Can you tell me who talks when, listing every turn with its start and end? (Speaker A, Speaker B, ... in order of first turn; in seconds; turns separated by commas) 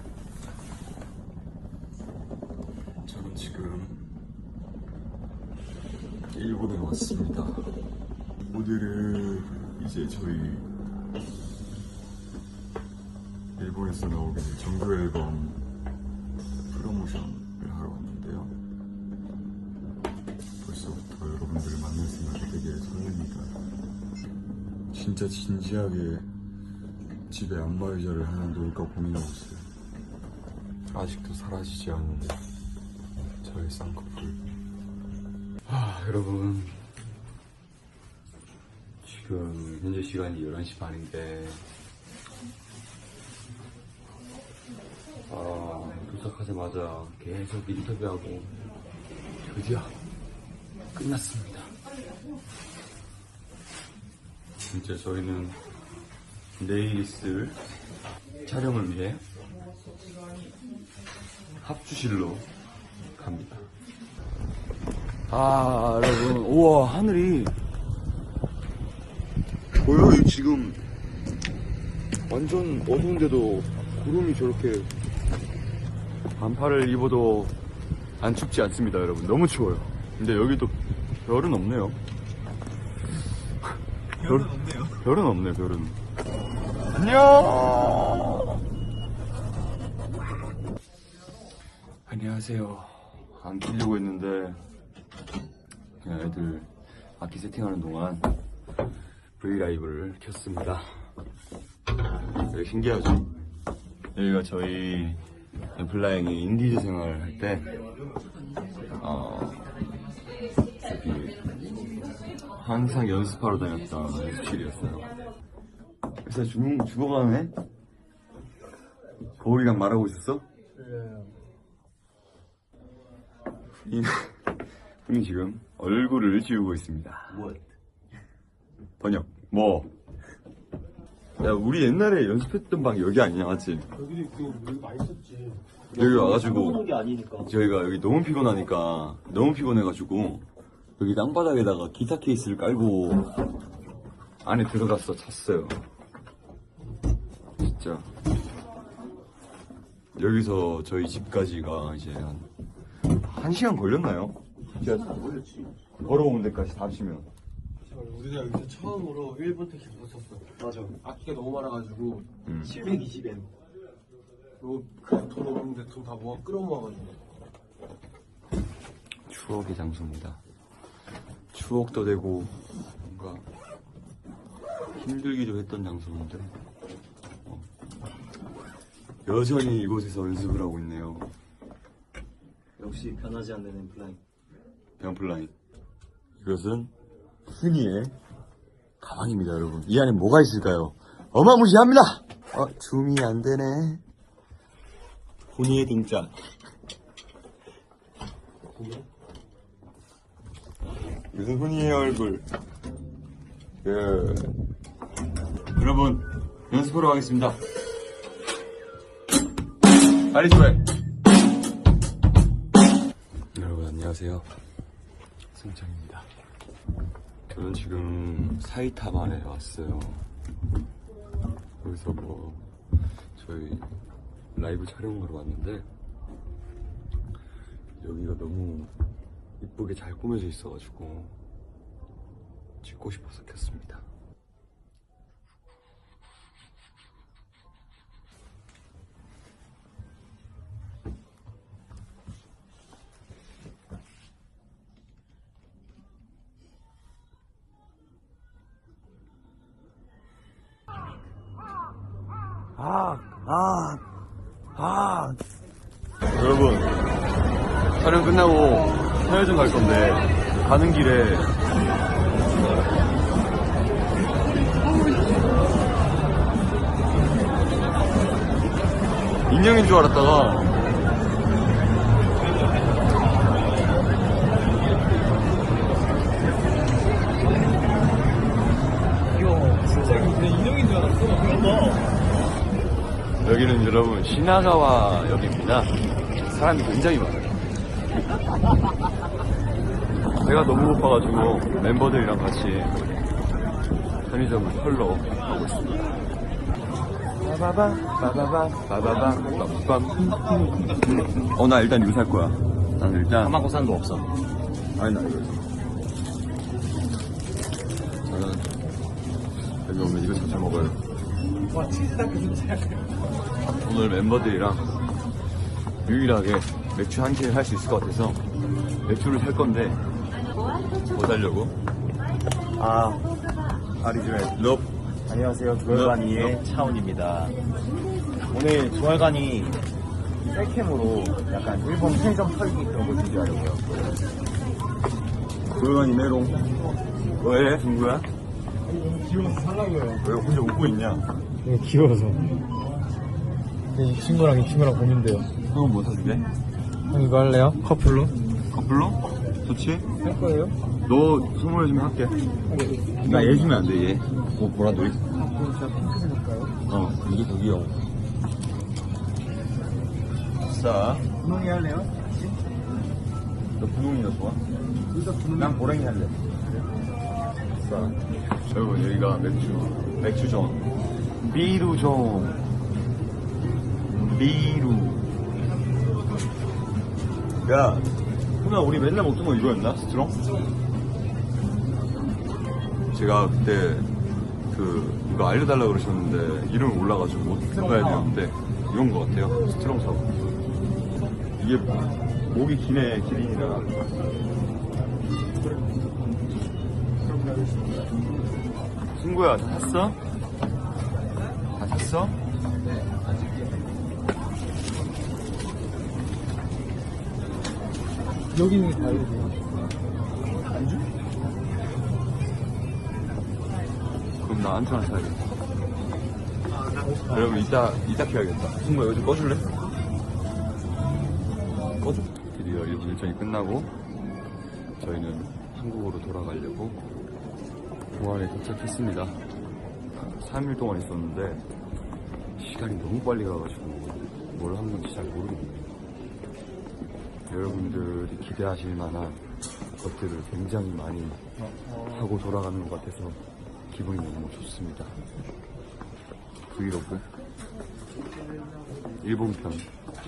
Speaker A: 3.0-4.1, Speaker A: 6.3-7.7, Speaker A: 8.5-10.7, Speaker A: 13.6-15.6, Speaker A: 16.7-18.5, Speaker A: 20.6-23.5, Speaker A: 24.9-26.3, Speaker A: 27.3-29.7, Speaker A: 30.9-32.4, Speaker A: 33.4-34.4, Speaker A: 35.6-36.9, Speaker A: 39.0-41.6, Speaker A: 45.3-48.5, Speaker A: 49.4-49.9, Speaker A: 50.9-51.7, Speaker A: 54.7-55.6, Speaker A: 56.6-57.6, Speaker A: 58.4-59.2, Speaker A: 61.6-62.5, Speaker A: 63.1-63.7, Speaker A: 65.3-67.5, Speaker A: 69.7-70.8, Speaker A: 72.3-74.9, Speaker A: 76.4-77.5, Speaker A: 78.2-82.0, Speaker A: 84.2-86.0, Speaker A: 86.9-88.6, Speaker A: 92.1-94.6, Speaker A: 96.0-98.3, Speaker A: 99.4-100.9, Speaker A: 102.4-103.3, Speaker A: 104.1-105.2, Speaker A: 105.8-107.7, Speaker A: 109.0-109.6, Speaker A: 110.8-111.4, Speaker A: 112.6-115.1, Speaker A: 116.2-117.5, Speaker A: 119.4-120.5, Speaker B: 120.8-121.3, Speaker A: 123.7-124.4, Speaker A: 125.0-127.4, Speaker C: 127.3-127.6, Speaker A: 129.0-129.9, Speaker A: 131.4-133.9, Speaker B: 133.9-135.6, Speaker C: 135.9-137.5, Speaker A: 135.9-140.4, Speaker A: 141.0-143.3, Speaker A: 144.4-145.8, Speaker A: 147.6-148.1, Speaker A: 150.1-152.5, Speaker A: 153.1-154.4, Speaker C: 154.7-155.7, Speaker A: 156.0-157.3, Speaker B: 157.8-163.5, Speaker C: 160.6-161.0, Speaker A: 162.4-162.8, Speaker C: 162.6-163.3, Speaker B: 164.6-167.2, Speaker A: 169.3-170.4, Speaker A: 171.5-173.5, Speaker A: 174.9-176.6, Speaker A: 179.2-181.3, Speaker C: 182.8-184.2, Speaker A: 185.0-185.5, Speaker A: 186.4-186.9, Speaker A: 187.5-188.1, Speaker A: 189.0-194.0, Speaker A: 195.5-196.3, Speaker B: 198.7-199.0, Speaker A: 201.3-202.4, Speaker A: 203.8-204.6, Speaker A: 205.7-207.6, Speaker A: 210.3-210.8, Speaker A: 213.5-214.5, Speaker A: 215.5-216.3, Speaker A: 217.5-220.2, Speaker A: 221.8-222.6, Speaker A: 223.3-223.9, Speaker A: 224.5-225.9, Speaker A: 227.9-228.9, Speaker A: 229.6-231.3, Speaker A: 232.8-234.1, Speaker A: 252.8-254.0, Speaker A: 254.7-255.4, Speaker A: 256.3-256.9, Speaker A: 258.0-261.5, Speaker A: 269.5-270.8, Speaker C: 279.4-280.4, Speaker B: 279.5-282.0, Speaker A: 283.4-285.9, Speaker A: 286.5-287.6, Speaker A: 290.4-293.2, Speaker A: 294.2-296.0, Speaker A: 297.4-303.5, Speaker C: 303.4-304.3, Speaker A: 304.9-305.7, Speaker A: 308.2-308.8, Speaker A: 309.8-311.0, Speaker B: 311.7-313.0, Speaker A: 313.8-314.9, Speaker A: 316.0-318.4, Speaker A: 319.0-320.0, Speaker A: 321.1-321.8, Speaker C: 322.8-323.2, Speaker C: 324.0-324.5, Speaker A: 324.5-324.9, Speaker C: 325.2-327.6, Speaker A: 325.9-326.6, Speaker C: 328.5-329.8, Speaker C: 330.4-334.2, Speaker A: 335.7-336.7, Speaker A: 337.3-338.3, Speaker B: 338.9-340.2, Speaker A: 340.2-341.3, Speaker B: 341.6-342.6, Speaker B: 343.9-345.5, Speaker A: 345.7-346.4, Speaker B: 347.1-348.3, Speaker A: 348.7-350.1, Speaker B: 350.2-350.8, Speaker A: 351.0-352.4, Speaker B: 352.7-353.7, Speaker A: 353.2-355.2, Speaker B: 355.3-356.7, Speaker A: 356.9-358.0, Speaker A: 360.6-361.3, Speaker C: 361.4-362.6, Speaker A: 363.8-364.6, Speaker C: 365.1-365.8, Speaker B: 365.2-365.7, Speaker A: 365.5-366.4, Speaker A: 367.8-370.8, Speaker A: 371.4-372.6, Speaker A: 374.1-375.2, Speaker A: 377.6-380.4, Speaker A: 383.1-384.1, Speaker A: 384.7-390.3, Speaker C: 387.7-388.3, Speaker A: 391.6-393.9, Speaker B: 397.3-398.1, Speaker A: 399.1-400.2, Speaker A: 401.7-402.4, Speaker B: 408.5-409.6, Speaker A: 414.4-415.5, Speaker B: 416.9-417.5, Speaker A: 417.2-419.7, Speaker A: 422.0-423.9, Speaker A: 425.0-427.0, Speaker A: 428.1-429.4, Speaker A: 430.1-431.6, Speaker A: 432.6-436.0, Speaker A: 437.5-439.4, Speaker A: 440.0-445.1, Speaker A: 446.7-447.3, Speaker A: 449.2-449.9